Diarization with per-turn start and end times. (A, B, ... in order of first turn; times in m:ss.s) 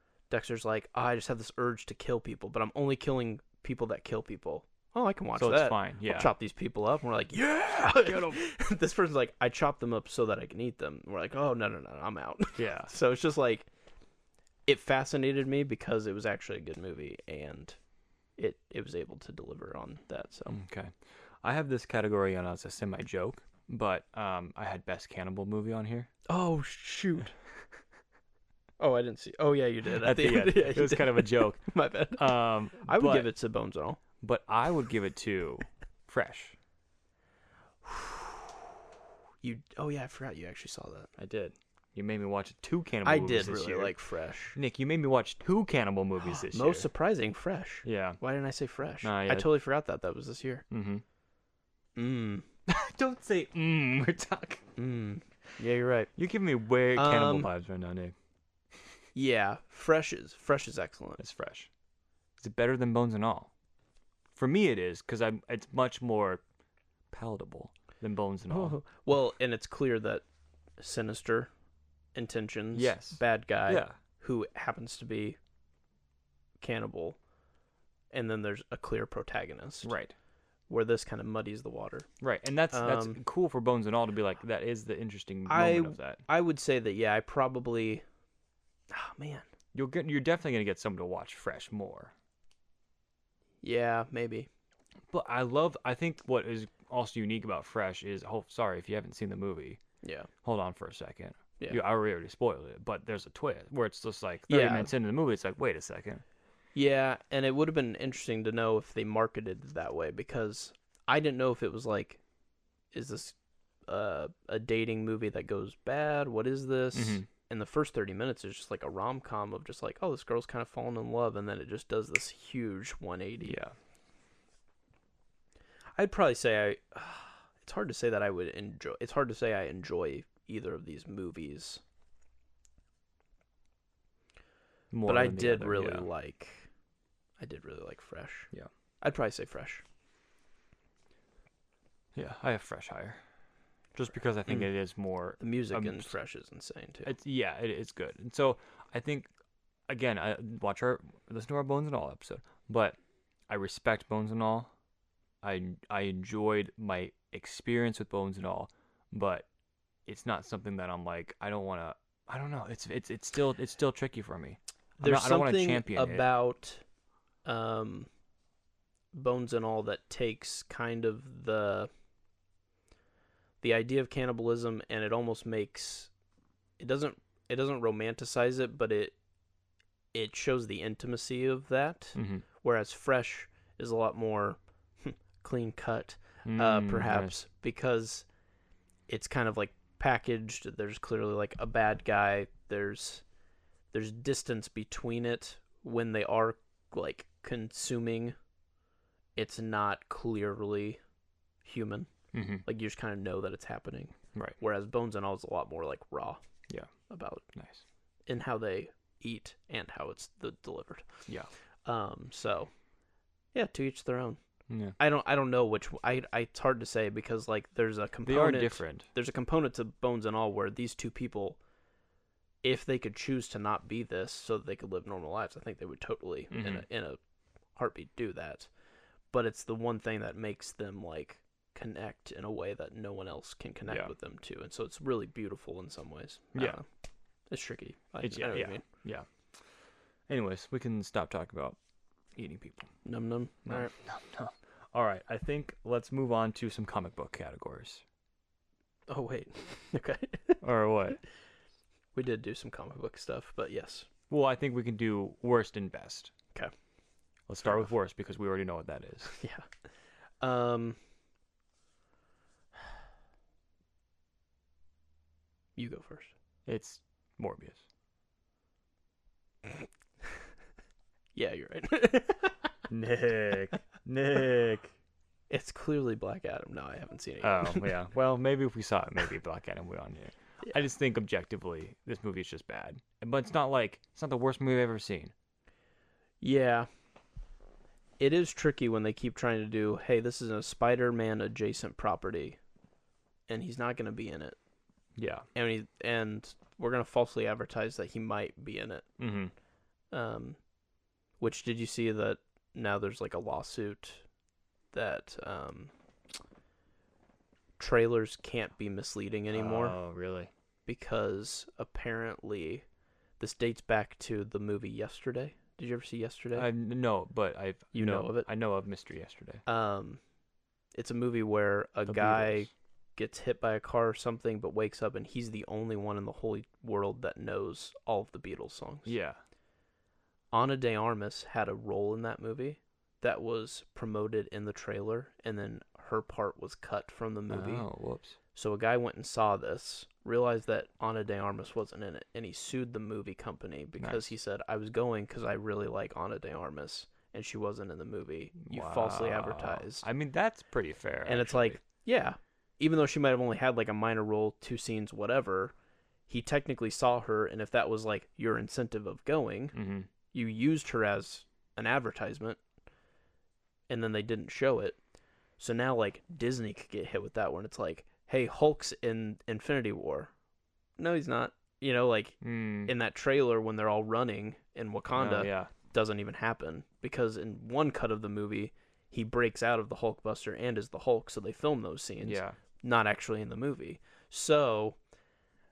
0:00.3-0:13.7 A
0:05.4-0:06.3 B
0:08.0-0:08.4 B
0:12.6-0:12.9 B
0:14.6-0:17.8 A
0:18.4-0:20.6 A
0:20.5-0:26.1 B
0:26.3-0:27.3 A
0:28.8-0:34.0 A
0:30.0-0:33.3 B
0:34.2-0:36.6 B
0:37.8-0:38.2 A
0:39.4-0:41.1 A
0:41.2-0:43.9 B
0:43.0-0:44.6 A
0:44.6-0:46.9 B
0:46.3-0:50.6 A
0:47.8-0:48.2 B
0:49.0-0:49.5 B
0:50.7-0:51.0 B
0:52.0-0:52.4 A
0:52.7-0:54.6 B
0:54.8-0:56.1 A
0:56.2-0:58.1 B
0:56.9-0:57.5 A
0:59.1-1:01.2 A
1:01.2-1:01.7 B
1:02.4-1:03.5 B
1:04.3-1:06.4 B
1:07.1-1:08.8 B
1:08.5-1:10.2 A
1:10.8-1:11.5 A
1:12.1-1:15.4 A
1:12.7-1:14.0 B
1:16.6-1:17.2 A
1:18.1-1:19.9 A
1:19.8-1:20.1 B
1:20.7-1:22.1 A
1:22.2-1:26.2 B
1:22.7-1:23.2 A
1:25.5-1:28.0 A
1:28.9-1:29.4 A
1:29.7-1:32.1 B
1:33.6-1:34.5 A
1:35.1-1:39.8 B
1:40.0-1:40.3 A
1:40.4-1:46.2 B
1:44.5-1:44.9 A
1:46.7-1:52.2 A
1:52.9-1:53.3 A
1:53.9-2:03.6 A
1:56.9-1:57.2 B
2:03.4-2:03.7 B
2:06.0-2:11.8 A
2:14.9-2:16.1 B
2:15.0-2:16.7 A
2:17.4-2:18.5 A
2:19.0-2:19.8 A
2:22.1-2:23.2 B
2:23.9-2:26.1 B
2:25.4-2:27.1 A
2:27.0-2:29.3 B
2:29.9-2:33.0 B
2:33.5-2:34.7 B
2:35.4-2:39.4 B
2:40.0-2:46.2 B
2:45.0-2:46.8 A
2:47.4-2:48.1 A
2:49.1-2:51.9 A
2:53.6-2:56.1 A
2:56.8-2:59.2 A
3:00.1-3:08.2 A
3:02.1-3:02.4 B
3:06.4-3:07.3 B
3:09.1-3:13.2 A
3:13.9-3:18.4 A
3:19.4-3:21.0 A
3:21.6-3:22.1 A
3:22.3-3:22.6 B
3:22.6-3:26.4 A
3:27.1-3:27.4 A
3:27.5-3:27.8 B
3:28.3-3:31.2 A
3:31.8-3:32.7 A
3:33.5-3:34.4 A
3:34.7-3:34.9 B
3:35.0-3:41.6 A
3:38.2-3:39.1 B
3:42.6-3:47.2 A
3:46.5-3:46.8 B
3:47.8-3:48.7 A
3:49.3-3:56.8 A
3:53.9-3:54.1 B
3:57.5-3:58.8 A
3:58.2-3:59.2 B
4:00.3-4:01.8 B
4:02.3-4:02.9 B
4:03.0-4:03.9 A
4:03.6-4:08.0 B
4:09.1-4:10.6 A
4:10.6-4:11.2 B
4:12.1-4:14.1 A
4:14.3-4:16.3 B
4:17.5-4:19.4 B
4:19.3-4:19.7 A
4:20.4-4:21.0 A
4:25.8-4:26.3 A
4:26.6-4:27.8 B
4:31.3-4:32.7 A
4:32.9-4:34.9 B
4:35.5-4:37.9 A
4:37.4-4:45.3 B
4:46.4-4:46.9 A
4:48.2-4:52.6 A
4:53.5-4:54.6 A
4:55.2-4:55.5 B
4:55.5-4:59.0 A
4:59.2-4:59.5 B
5:00.1-5:00.6 A
5:01.4-5:04.2 A
5:04.9-5:05.9 A
5:07.8-5:10.0 A
5:09.5-5:10.5 B
5:10.9-5:12.8 A
5:13.4-5:16.7 A
5:16.5-5:19.6 B
5:17.9-5:18.5 A
5:19.6-5:20.2 A
5:20.9-5:29.1 A
5:22.0-5:22.7 B
5:29.0-5:29.4 B
5:30.5-5:37.8 A
5:37.5-5:38.4 B
5:38.5-5:50.0 A
5:44.0-5:44.3 B
5:48.6-5:51.8 B
5:51.2-5:55.7 A
5:56.3-5:59.7 A
5:59.7-6:00.1 B
6:00.3-6:02.6 A
6:03.9-6:05.0 A
6:05.6-6:10.3 A
6:11.0-6:25.0 A
6:12.4-6:12.9 B
6:15.1-6:15.7 B
6:22.2-6:22.6 B